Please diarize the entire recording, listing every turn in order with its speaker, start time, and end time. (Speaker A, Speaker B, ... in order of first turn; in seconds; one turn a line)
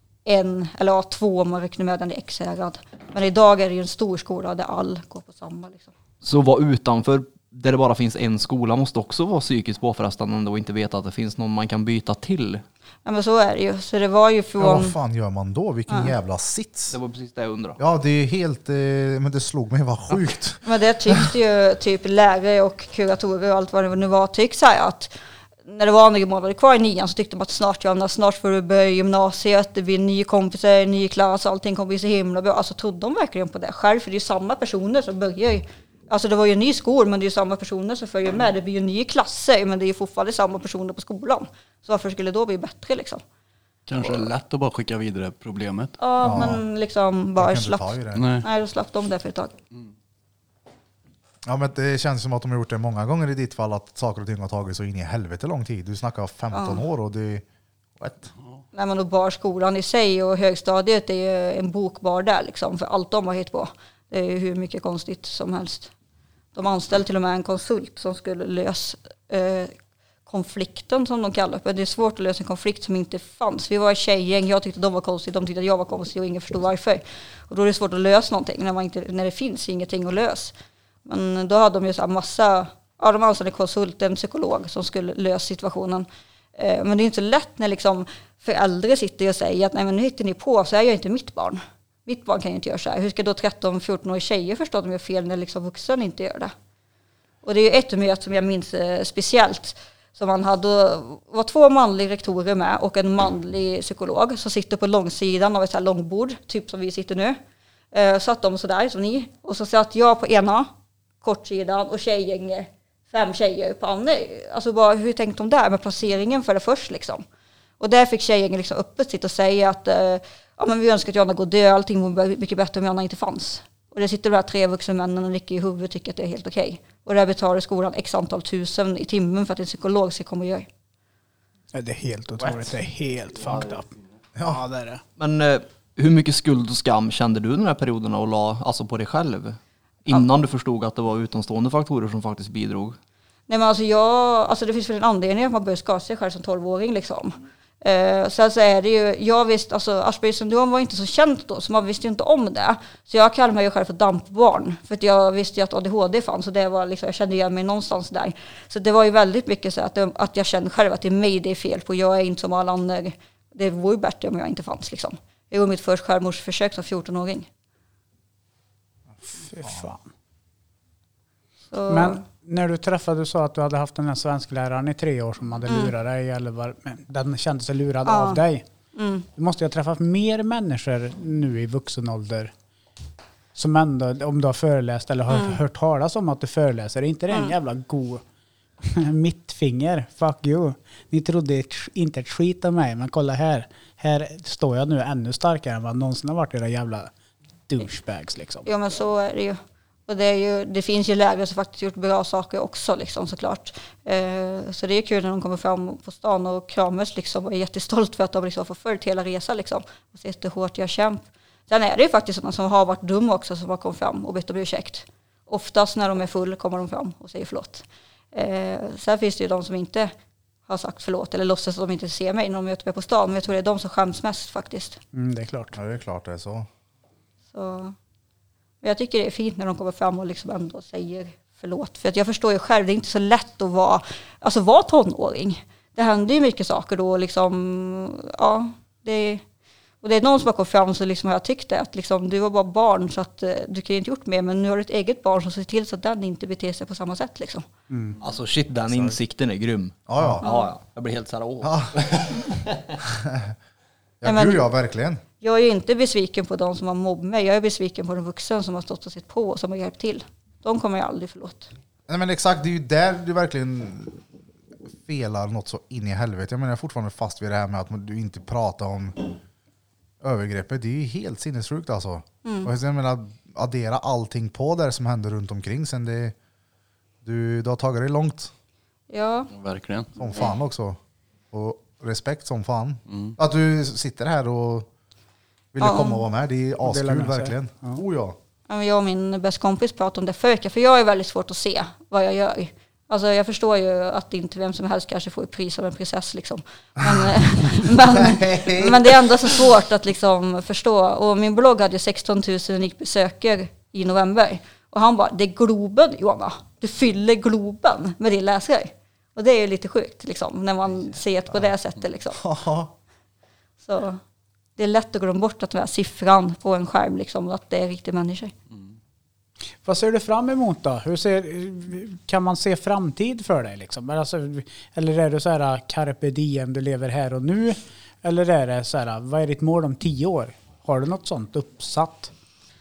Speaker A: 0.3-5.9
Speaker B: 6.2-12.6
Speaker A: 13.1-14.9
Speaker C: 14.6-16.9
Speaker A: 15.9-16.1
Speaker B: 16.9-17.8
Speaker C: 17.8-21.3
Speaker A: 20.6-25.1
Speaker A: 25.7-43.2
Speaker D: 43.9-46.0
Speaker A: 46.0-49.5
Speaker C: 46.2-46.6
Speaker C: 47.4-48.3
Speaker D: 48.1-48.5
Speaker C: 51.5-57.4
Speaker A: 56.5-56.8
Speaker C: 58.0-58.3
Speaker A: 58.7-65.9
Speaker A: 66.5-69.7
Speaker A: 70.3-80.5
Speaker A: 81.1-96.5
Speaker A: 97.4-107.4
Speaker A: 107.9-110.7
Speaker A: 111.2-117.2
Speaker A: 117.8-130.7
Speaker E: 131.7-133.9
Speaker C: 134.4-134.6
Speaker E: 134.4-135.0
Speaker B: 135.2-143.0
Speaker A: 143.5-167.5
Speaker E: 169.4-170.1
Speaker C: 169.6-169.9
Speaker A: 171.7-172.2
Speaker E: 171.9-178.7
Speaker A: 175.7-175.9
Speaker A: 178.1-178.4
Speaker A: 178.9-179.3
Speaker E: 179.4-182.5
Speaker E: 183.6-188.2
Speaker A: 185.3-185.6
Speaker E: 188.8-197.1
Speaker E: 197.7-198.7
Speaker A: 198.7-220.1
Speaker A: 220.7-225.0
Speaker E: 225.1-225.8
Speaker C: 225.7-226.7
Speaker A: 227.5-227.9
Speaker A: 228.8-239.4
Speaker A: 240.0-247.7
Speaker E: 247.9-248.2
Speaker B: 248.2-253.0
Speaker C: 250.1-250.4
Speaker A: 250.4-250.7
Speaker C: 251.6-252.1
Speaker C: 253.0-253.5
Speaker C: 254.2-255.2
Speaker A: 254.2-254.7
Speaker A: 255.4-261.7
Speaker C: 262.1-264.2
Speaker C: 265.0-269.2
Speaker C: 270.2-276.4
Speaker A: 272.4-272.7
Speaker C: 277.2-278.5
Speaker A: 279.1-279.5
Speaker D: 279.5-280.1
Speaker C: 280.2-281.0
Speaker C: 281.5-284.9
Speaker D: 283.1-283.4
Speaker C: 285.7-288.4
Speaker A: 285.8-286.2
Speaker E: 286.8-288.0
Speaker A: 288.7-312.4
Speaker C: 297.1-297.3
Speaker C: 298.1-299.6
Speaker C: 312.3-312.9
Speaker A: 313.8-314.2
Speaker A: 314.8-318.5
Speaker E: 319.9-332.3